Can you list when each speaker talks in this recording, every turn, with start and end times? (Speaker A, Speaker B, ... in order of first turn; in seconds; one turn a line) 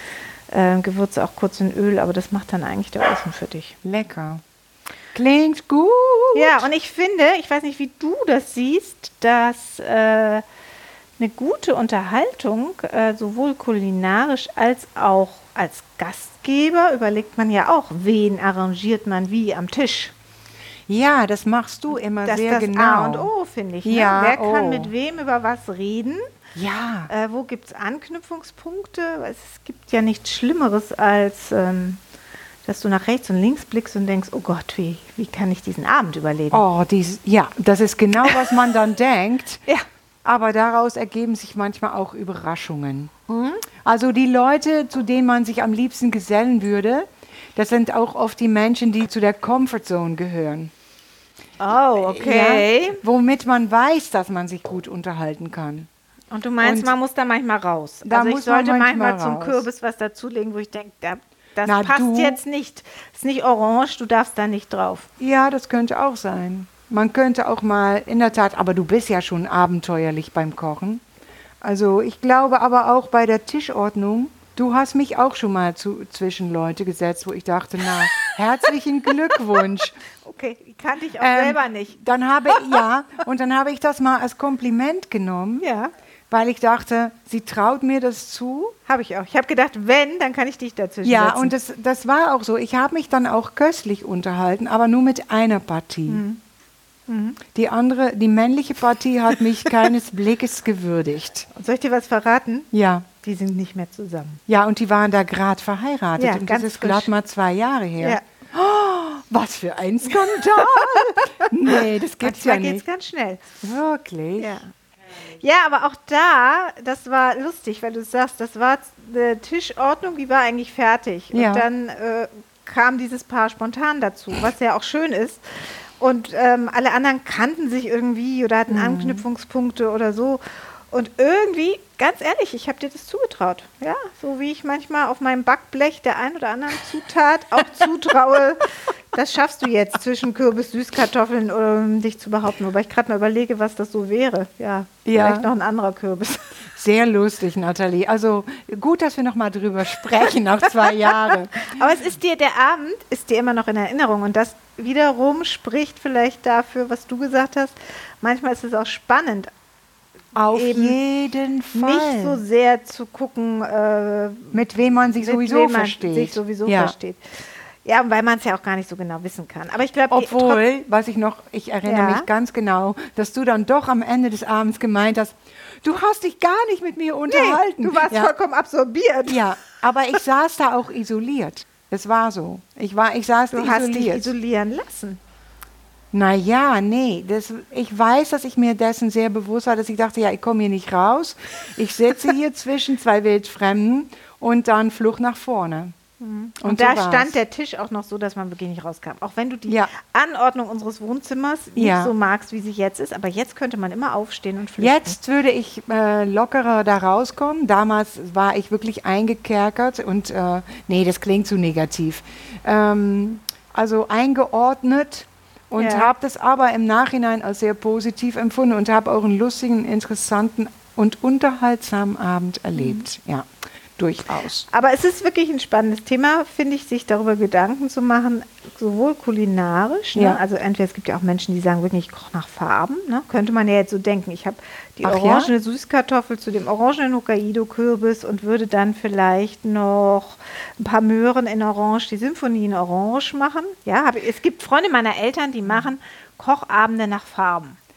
Speaker A: 0.5-3.8
Speaker B: 3.8-4.4
Speaker B: 5.1-6.7
Speaker A: 6.3-10.4
Speaker A: 11.2-20.1
Speaker B: 20.9-23.3
Speaker A: 22.2-26.2
Speaker B: 23.9-24.9
Speaker B: 26.6-27.1
Speaker A: 27.1-32.0
Speaker A: 32.6-36.6
Speaker B: 36.5-39.6
Speaker B: 40.2-43.1
Speaker A: 43.3-43.6
Speaker B: 43.8-50.7
Speaker A: 51.6-53.0
Speaker B: 52.0-55.9
Speaker A: 56.3-65.1
Speaker B: 56.6-56.9
Speaker B: 58.0-59.6
Speaker B: 61.6-62.4
Speaker B: 65.2-71.0
Speaker B: 71.6-80.0
Speaker A: 80.2-82.8
Speaker B: 81.2-85.7
Speaker A: 85.6-85.9
Speaker B: 86.3-88.8
Speaker A: 88.9-91.5
Speaker B: 91.0-96.2
Speaker A: 96.1-96.4
Speaker A: 97.1-97.4
Speaker B: 97.5-101.5
Speaker A: 101.5-104.4
Speaker B: 102.7-103.1
Speaker B: 104.5-112.8
Speaker A: 106.2-107.1
Speaker A: 110.4-113.4
Speaker B: 113.6-114.6
Speaker A: 114.4-114.7
Speaker A: 115.3-125.4
Speaker B: 121.3-121.7
Speaker A: 126.0-146.4
Speaker B: 128.7-129.2
Speaker B: 145.1-145.5
Speaker B: 146.8-151.8
Speaker A: 151.6-159.5
Speaker B: 160.3-162.4
Speaker A: 160.5-161.0
Speaker A: 161.7-164.6
Speaker B: 164.5-166.9
Speaker A: 165.2-170.6
Speaker B: 170.1-178.3
Speaker A: 171.8-172.3
Speaker A: 177.3-179.4
Speaker B: 179.3-184.3
Speaker A: 183.5-185.2
Speaker B: 186.1-195.9
Speaker A: 196.2-205.2
Speaker B: 196.6-197.4
Speaker B: 201.8-202.1
Speaker B: 204.8-224.7
Speaker A: 215.8-216.1
Speaker A: 222.8-223.0
Speaker A: 224.7-247.8
Speaker B: 230.2-230.4
Speaker B: 235.0-235.5